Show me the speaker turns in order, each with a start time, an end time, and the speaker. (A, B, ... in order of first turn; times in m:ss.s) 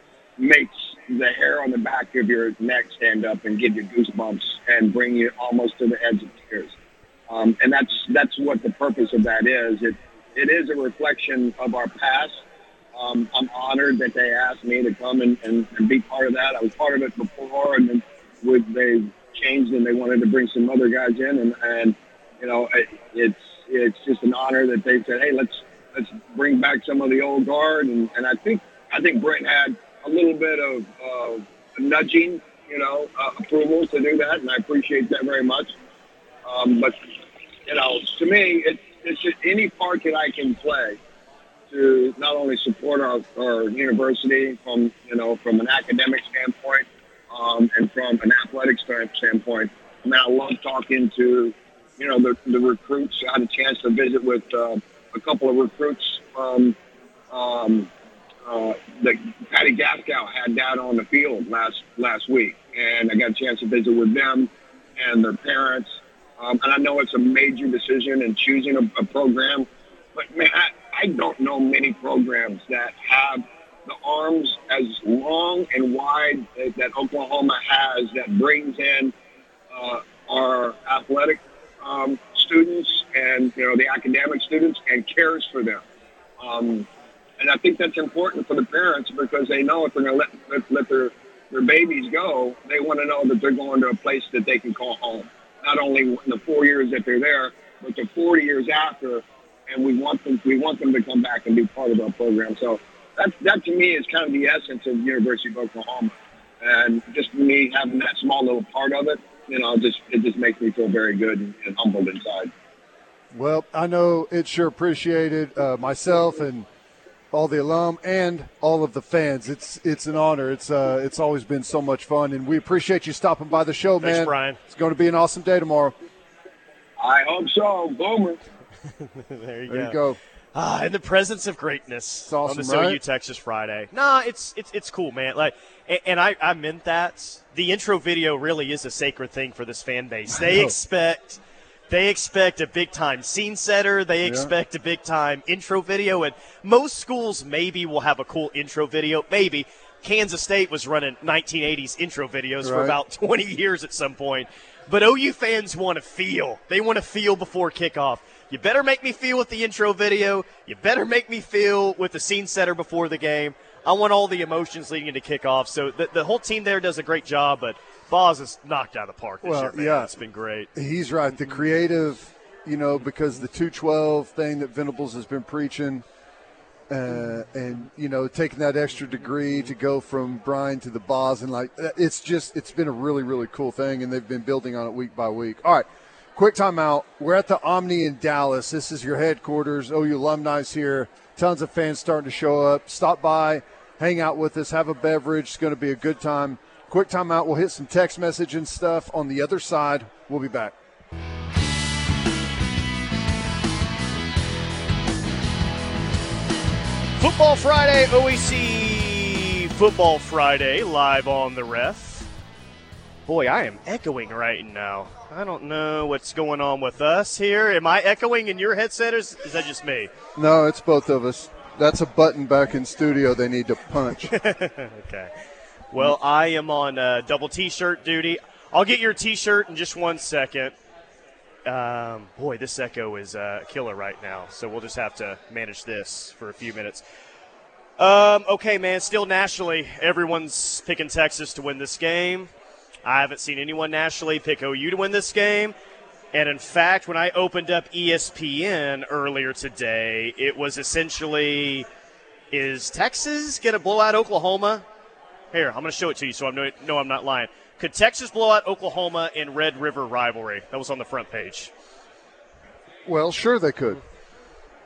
0:00.4-0:06.7 A
0:07.3-0:12.4 A
0:12.9-0:35.7 A
0:36.4-0:37.0 A
0:37.7-0:41.0 A
0:41.7-0:56.8 A
0:57.3-0:57.9 A
0:58.4-1:19.1 A
1:19.7-1:25.8 A
1:26.4-1:26.9 A
1:27.4-1:52.5 A
1:53.3-1:56.7 B
1:57.3-2:05.9 B
2:04.0-2:04.6 C
2:07.0-2:08.4 A
2:09.2-2:10.0 C
2:09.7-2:10.2 B
2:10.5-2:50.7 C
2:12.2-2:13.0 B
2:20.3-2:20.7 B
2:24.2-2:24.5 B
2:32.6-2:33.0 B
2:49.4-2:50.1 B
2:50.7-2:56.0 B
2:56.9-3:20.7 B
3:27.2-3:32.3 C
3:33.3-3:40.1 C
3:40.3-3:44.3 B
3:44.3-3:45.3 C
3:45.9-3:50.7 C
3:51.6-3:57.0 C
3:58.0-4:02.5 C
4:03.0-4:05.7 C
4:06.3-4:11.8 C
4:12.5-4:14.8 C
4:15.5-4:21.7 C
4:23.0-4:24.0 B